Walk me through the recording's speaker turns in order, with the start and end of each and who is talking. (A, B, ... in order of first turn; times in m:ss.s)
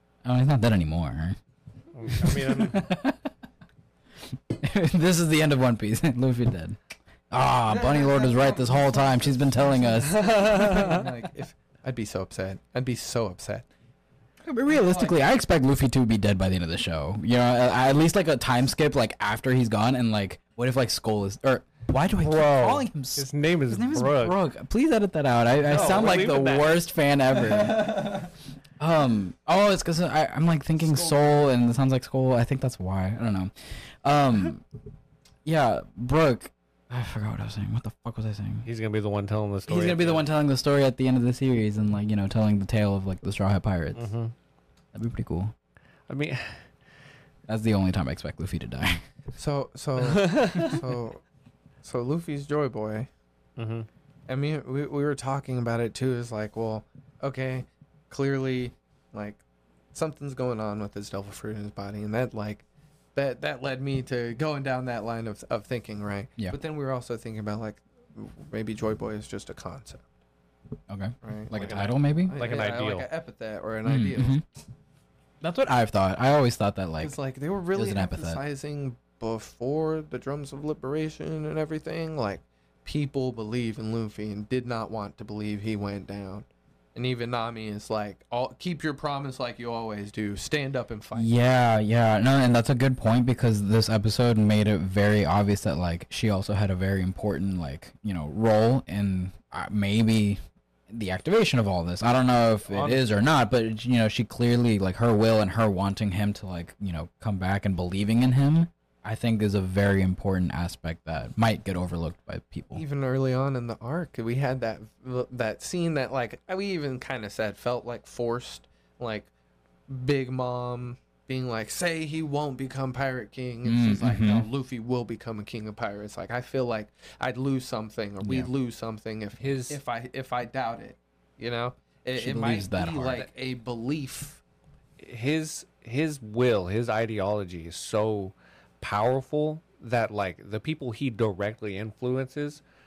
0:00.2-0:01.4 A
0:01.9-0:02.8 B
0:02.2-0:03.3 A
0:04.3-0:06.8 A
0:07.3-0:10.3 A
0:07.6-0:13.7 C
0:10.1-0:11.1 B
0:14.4-0:28.3 A
0:14.6-0:15.2 C
0:22.2-0:24.4 B
0:25.6-0:26.8 B
0:27.4-0:28.3 C
0:28.8-0:33.5 A
0:30.8-0:31.5 C
0:34.0-0:34.6 A
0:35.4-0:38.7 A
0:38.6-0:40.2 B
0:39.7-0:44.1 A
0:43.9-0:44.3 B
0:44.9-0:45.5 A
0:46.1-0:46.6 B
0:47.5-0:49.0 A
0:49.3-0:51.2 C
0:50.0-0:50.8 B
0:51.8-0:53.1 C
0:53.6-0:53.9 B
0:54.3-0:59.4 C
0:59.9-1:02.6 C
1:03.1-1:10.0 C
1:10.9-1:12.4 A
1:11.2-1:11.6 C
1:11.5-1:13.1 B
1:12.2-1:14.4 C
1:13.8-1:14.4 A
1:15.4-1:17.2 A
1:17.0-1:31.3 C
1:17.7-1:18.4 A
1:31.1-1:52.8 A
1:42.7-1:43.0 B
1:52.7-1:59.3 C
1:59.9-2:14.4 C
2:03.6-2:04.5 A
2:08.2-2:08.5 A
2:09.4-2:09.8 B
2:12.2-2:13.2 A
2:15.0-2:22.6 B